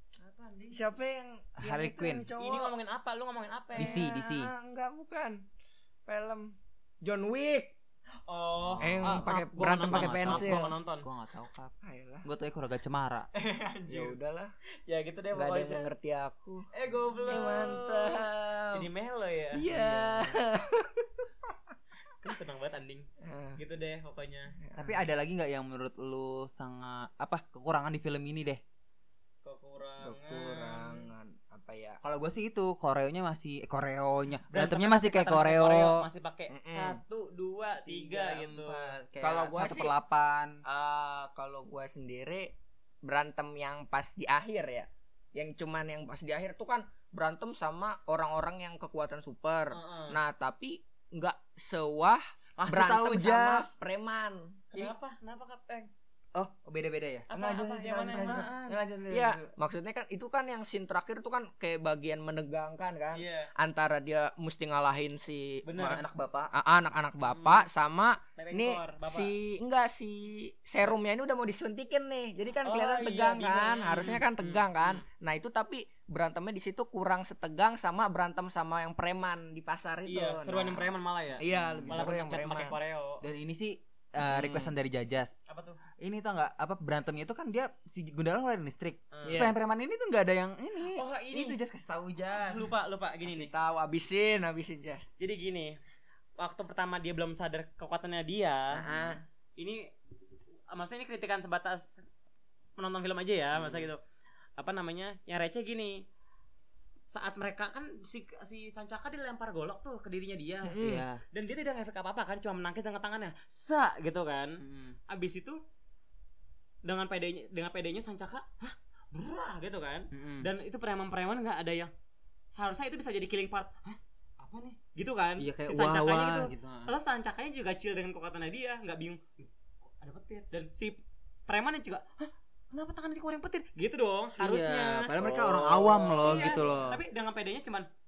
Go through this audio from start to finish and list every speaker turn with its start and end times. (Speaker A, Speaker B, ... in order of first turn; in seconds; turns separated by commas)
Speaker A: 0.2-0.8, Speaker B: 0.7-2.7, Speaker C: 1.6-2.3, Speaker A: 2.4-4.0, Speaker B: 3.8-5.5, Speaker C: 3.8-4.5, Speaker B: 6.1-7.7, Speaker A: 8.3-11.1, Speaker C: 8.6-9.3, Speaker B: 8.8-10.7, Speaker C: 9.9-13.3, Speaker B: 11.8-12.3, Speaker A: 13.3-14.2, Speaker B: 13.9-14.5, Speaker A: 14.9-15.9, Speaker B: 15.3-16.7, Speaker A: 16.7-19.7, Speaker B: 17.3-18.9, Speaker B: 19.5-21.3, Speaker C: 19.7-20.4, Speaker A: 22.2-23.1, Speaker B: 23.2-23.6, Speaker A: 23.6-24.6, Speaker B: 24.6-25.0, Speaker C: 24.8-28.6, Speaker A: 29.4-31.1, Speaker B: 30.0-32.0, Speaker C: 32.0-36.0, Speaker A: 34.5-38.9, Speaker B: 36.5-37.0, Speaker C: 37.9-40.6, Speaker B: 39.2-39.9, Speaker B: 40.7-54.6, Speaker A: 49.7-50.2, Speaker C: 52.6-53.7, Speaker A: 54.7-55.9, Speaker C: 56.4-59.5, Speaker A: 57.3-58.5, Speaker B: 58.1-80.9, Speaker A: 63.1-63.5, Speaker A: 65.7-66.0, Speaker C: 65.8-66.5, Speaker A: 67.2-67.7, Speaker A: 68.4-69.3, Speaker A: 72.6-75.0, Speaker A: 80.1-83.2, Speaker C: 81.4-82.1, Speaker B: 81.4-82.8, Speaker C: 83.2-85.3, Speaker B: 84.2-84.7, Speaker A: 85.5-85.8, Speaker C: 86.0-92.7, Speaker A: 89.1-89.5, Speaker B: 89.3-89.6, Speaker A: 90.9-91.6, Speaker A: 92.3-93.5, Speaker B: 93.2-95.1, Speaker A: 95.2-95.8, Speaker A: 96.4-98.8, Speaker B: 98.7-99.2, Speaker A: 99.6-99.9, Speaker A: 100.7-102.0, Speaker A: 102.8-104.0, Speaker C: 103.5-103.9, Speaker A: 104.6-106.0, Speaker A: 107.1-115.6, Speaker B: 110.7-111.0, Speaker C: 110.8-111.2, Speaker C: 114.6-115.0, Speaker A: 116.8-121.9, Speaker C: 120.1-120.5, Speaker A: 122.5-135.2, Speaker C: 125.4-126.9, Speaker C: 134.4-137.0, Speaker B: 135.2-136.9, Speaker A: 136.1-137.9